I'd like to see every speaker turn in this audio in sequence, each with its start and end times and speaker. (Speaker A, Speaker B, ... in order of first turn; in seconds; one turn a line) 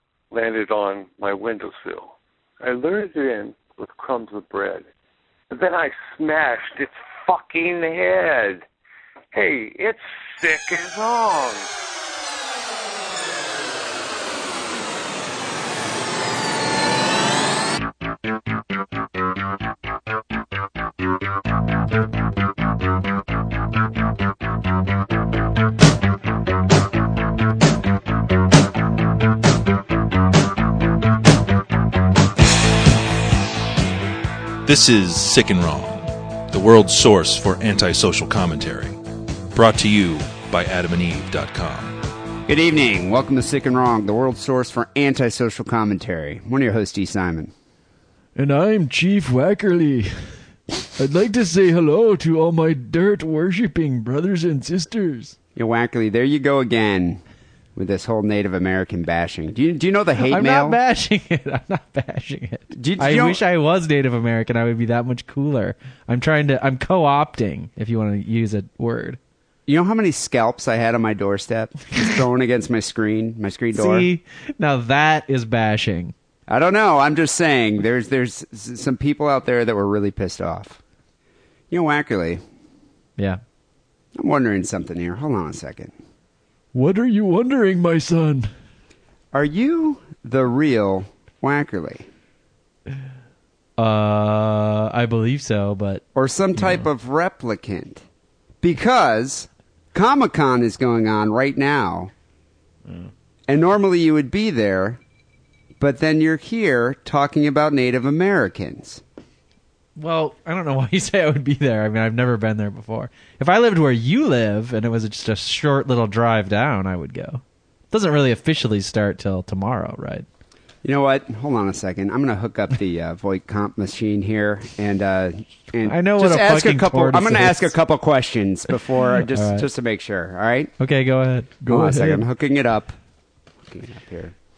Speaker A: 0.3-4.8
Speaker A: 5.5-8.6
Speaker A: 9.3-11.7
Speaker B: 34.6-39.0
Speaker B: 39.5-42.0
Speaker C: 42.5-47.5
Speaker D: 48.4-50.4
Speaker D: 51.0-55.4
Speaker C: 55.5-57.2
Speaker C: 57.7-60.8
Speaker D: 60.3-69.2
Speaker C: 62.7-63.4
Speaker C: 69.7-74.1
Speaker D: 73.7-76.1
Speaker C: 76.5-80.8
Speaker C: 81.7-82.4
Speaker C: 84.1-85.9
Speaker D: 86.7-88.5
Speaker C: 89.3-92.1
Speaker D: 93.8-96.0
Speaker C: 96.1-98.0
Speaker D: 96.6-96.8
Speaker C: 98.6-102.1
Speaker C: 103.5-105.0
Speaker C: 105.8-109.0
Speaker D: 110.0-120.2
Speaker C: 120.8-130.7
Speaker D: 125.8-127.7
Speaker D: 129.3-129.7
Speaker D: 130.8-132.2
Speaker C: 131.7-132.9
Speaker C: 133.6-134.3